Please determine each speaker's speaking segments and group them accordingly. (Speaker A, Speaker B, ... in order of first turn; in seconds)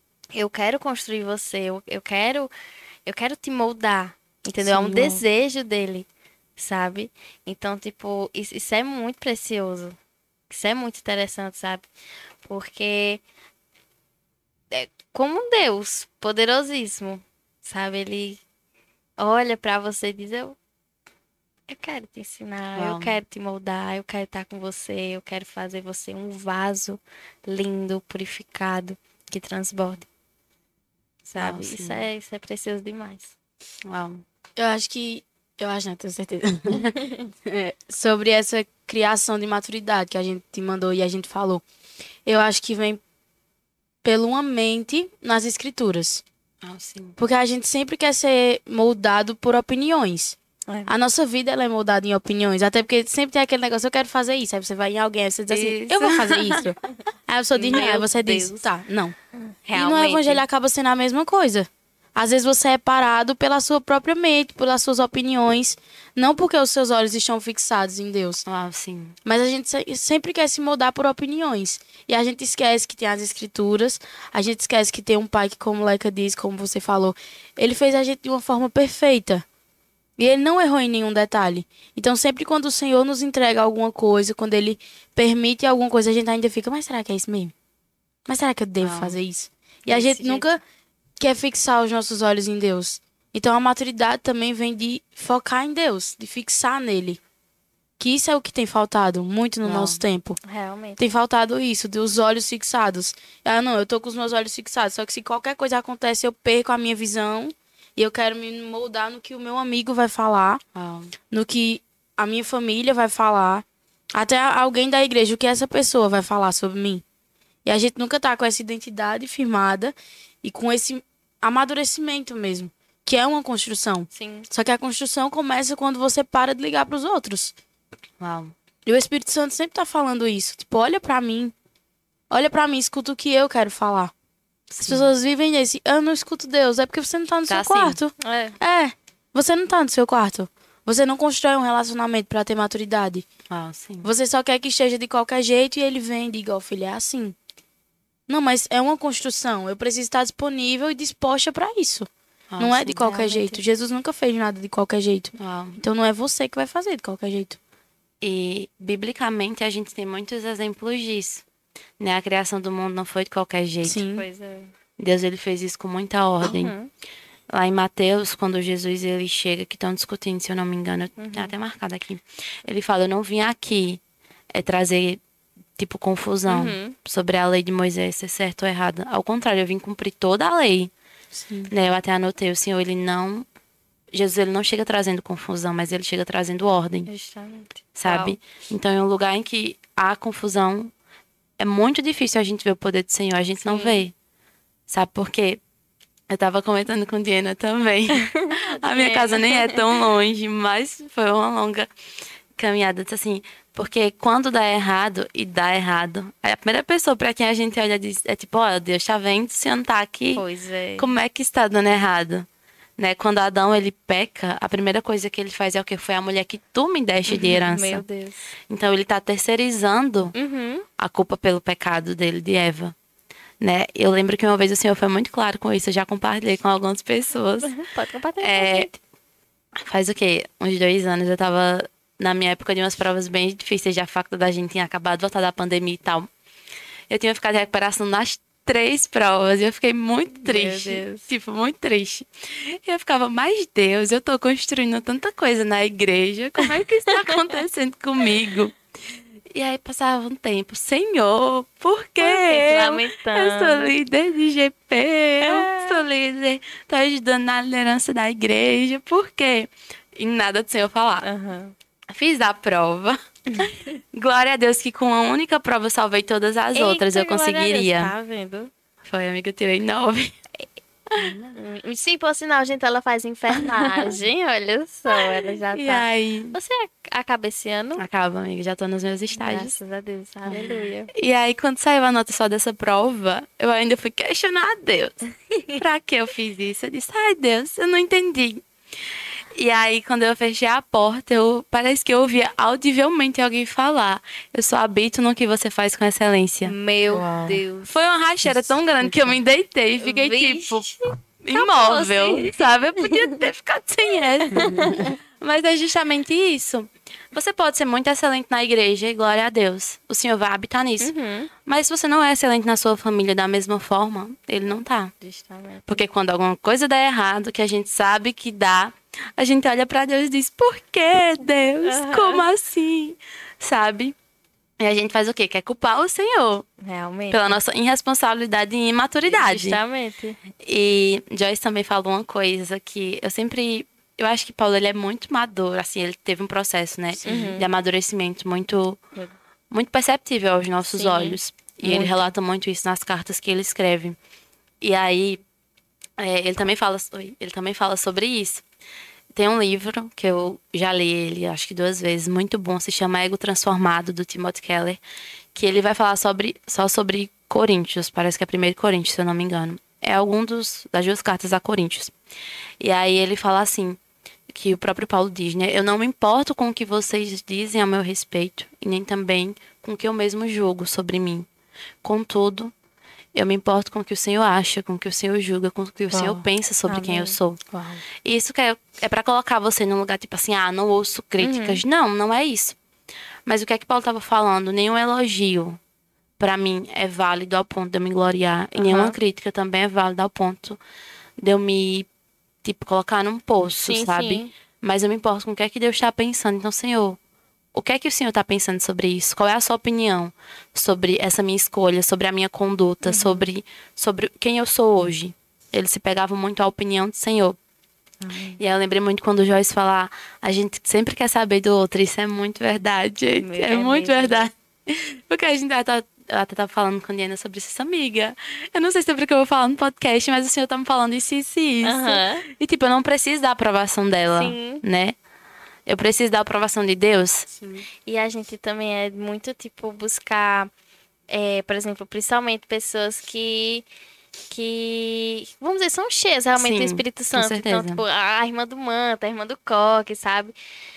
Speaker A: 0.3-2.5, 3.0-10.0, 10.5-11.9, 12.4-13.2, 14.7-18.4, 19.2-20.6, 21.7-30.1, 31.3-33.3, 37.0-37.2, 50.7-50.9, 57.5-58.7, 59.3-60.4, 100.4-101.0, 124.1-124.5, 138.2-138.6, 153.0-153.6, 164.1-164.7, 166.4-166.9, 171.2-171.5, 176.5-176.9, 187.1-188.4, 193.6-194.0, 198.1-199.8, 210.3-211.1, 217.3-218.5, 220.3-220.9, 227.6-228.9, 240.4-241.2, 246.6-247.4, 252.2-253.9, 255.4-256.0, 261.2-261.7, 266.7-268.7, 271.5-278.0, 279.3-281.1, 285.5-285.8, 296.6-297.9, 300.0-303.4, 304.5-305.1, 311.0-311.5, 315.2-316.0, 321.8-322.5, 326.8-327.6, 329.2-330.4, 337.2-337.7, 340.9-342.1, 376.9-377.4, 381.4-381.8, 388.7-389.1, 393.8-394.5, 403.0-403.4, 408.2-408.6, 413.4-414.5, 421.8-422.4, 424.3-424.8, 428.1-430.7, 431.3-433.8, 434.5-440.5
Speaker B: 4.7-5.2, 34.6-36.9, 37.4-41.6, 42.2-43.0, 44.0-46.2, 47.2-50.4, 50.9-59.1, 59.7-68.4, 69.2-79.4, 80.2-87.5, 88.3-90.6, 91.2-97.2, 98.0-100.4, 101.0-110.6, 111.3-117.0, 117.6-127.5, 128.8-131.5, 132.3-134.1, 134.8-143.2, 144.0-147.3, 148.3-157.6, 163.8-164.2, 181.3-181.7, 271.2-271.5, 280.5-280.9, 297.1-297.6, 298.4-299.4, 304.5-305.0, 376.1-376.5, 377.7-378.0, 427.5-427.9
Speaker C: 22.8-23.2, 31.4-32.0, 33.8-34.2, 46.6-47.2, 55.5-56.6, 68.5-69.2, 88.8-89.2, 89.8-90.4, 99.6-100.0, 110.7-111.1, 128.2-128.5, 134.7-135.1, 137.5-138.0, 143.5-144.1, 152.5-153.0, 155.4-155.8, 158.2-161.4, 162.0-164.0, 165.0-166.7, 167.5-174.0, 174.5-175.2, 175.8-180.9, 181.7-183.4, 184.1-187.1, 188.0-190.9, 191.6-194.1, 194.9-195.6, 196.3-201.9, 202.6-210.4, 211.0-212.4, 213.0-218.0, 218.7-220.3, 221.0-222.9, 223.6-227.8, 228.4-228.9, 229.8-236.3, 237.1-248.8, 249.5-261.2, 262.1-268.1, 269.0-270.3, 273.6-274.1, 275.2-276.5, 278.0-279.7, 281.1-285.2, 285.8-288.6, 289.5-296.8, 297.9-311.1, 311.6-315.1, 315.9-324.1, 324.8-326.7, 327.3-329.8, 330.6-339.0, 339.7-344.2, 344.8-345.4, 346.2-348.6, 349.3-355.0, 355.5-362.1, 362.8-364.0, 364.5-371.5, 372.0-372.7, 373.3-377.6, 378.2-382.8, 383.4-385.8, 386.4-390.8, 391.4-392.1, 392.6-397.2, 397.7-407.6, 408.6-425.1, 425.9-427.5, 436.6-438.0